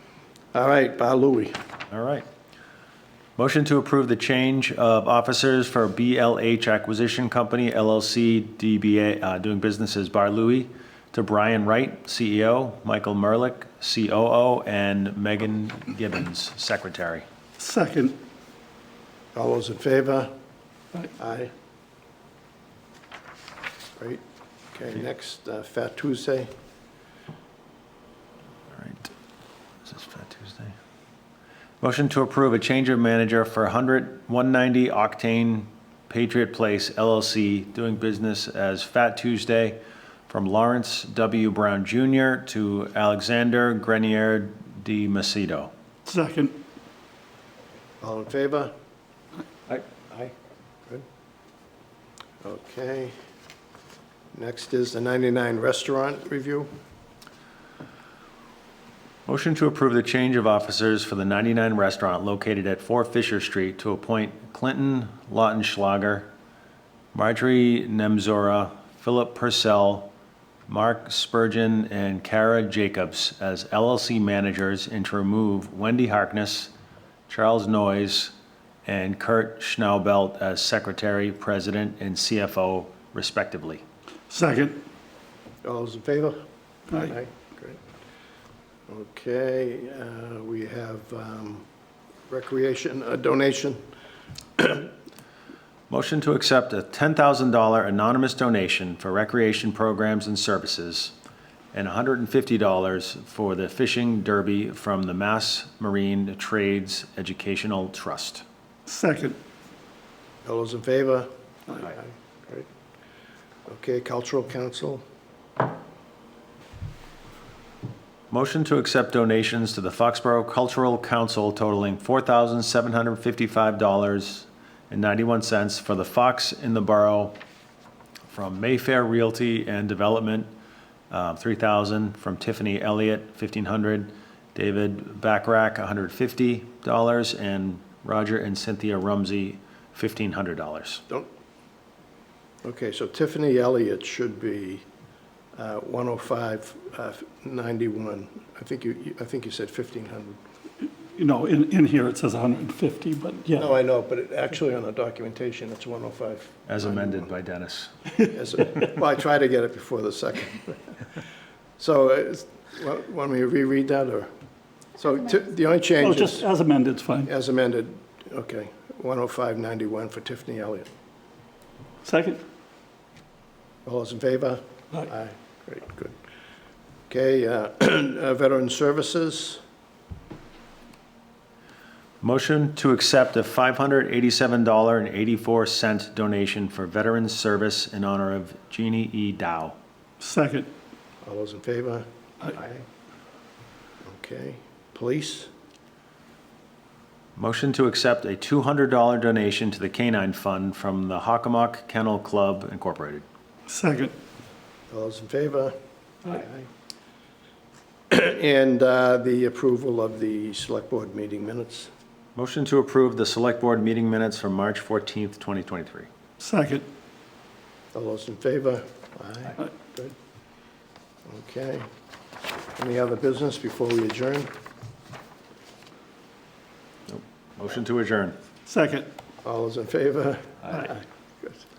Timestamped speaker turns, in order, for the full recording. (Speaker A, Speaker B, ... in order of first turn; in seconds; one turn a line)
Speaker A: 0.5-1.6
Speaker B: 1.9-2.3
Speaker B: 3.4-17.2
Speaker C: 17.6-18.2
Speaker A: 19.4-20.3
Speaker A: 21.1-21.5
Speaker A: 24.0-24.2
Speaker A: 24.7-26.5
Speaker B: 28.7-29.1
Speaker B: 29.9-30.8
Speaker B: 31.8-39.8
Speaker B: 40.3-45.7
Speaker C: 46.1-46.6
Speaker A: 48.0-48.7
Speaker B: 49.7-50.2
Speaker A: 52.4-53.1
Speaker A: 54.3-56.7
Speaker B: 59.3-66.3
Speaker B: 67.1-70.1
Speaker B: 70.7-76.7
Speaker B: 77.3-78.3
Speaker B: 78.9-83.8
Speaker C: 84.3-84.8
Speaker A: 85.6-86.4
Speaker A: 86.9-87.8
Speaker A: 88.9-91.7
Speaker A: 92.3-93.8
Speaker A: 94.6-94.9
Speaker B: 95.9-101.2
Speaker B: 101.7-108.4
Speaker C: 108.9-109.4
Speaker A: 110.4-112.7
Speaker A: 113.7-115.0
Speaker B: 118.3-127.4
Speaker B: 128.3-130.5
Speaker B: 131.1-141.0
Speaker A: 142.6-144.9
Speaker A: 145.6-150.4
Speaker C: 151.1-153.7
Speaker A: 153.6-157.3
Speaker B: 156.7-157.9
Speaker A: 158.2-161.0
Speaker A: 161.8-164.3
Speaker A: 165.0-166.5
Speaker C: 166.0-167.3
Speaker A: 167.3-170.9
Speaker C: 172.0-172.4
Speaker A: 173.9-176.2
Speaker A: 177.1-179.6
Speaker B: 182.2-189.8
Speaker C: 190.2-190.7
Speaker A: 191.2-192.8
Speaker A: 194.0-195.5
Speaker B: 197.4-203.2
Speaker C: 203.7-204.1
Speaker A: 204.9-206.7
Speaker A: 208.1-211.9
Speaker B: 212.4-216.1
Speaker C: 216.4-216.8
Speaker A: 217.9-220.1
Speaker A: 221.3-221.9
Speaker A: 222.8-224.5
Speaker B: 227.1-228.4
Speaker C: 228.7-229.1
Speaker A: 229.4-231.6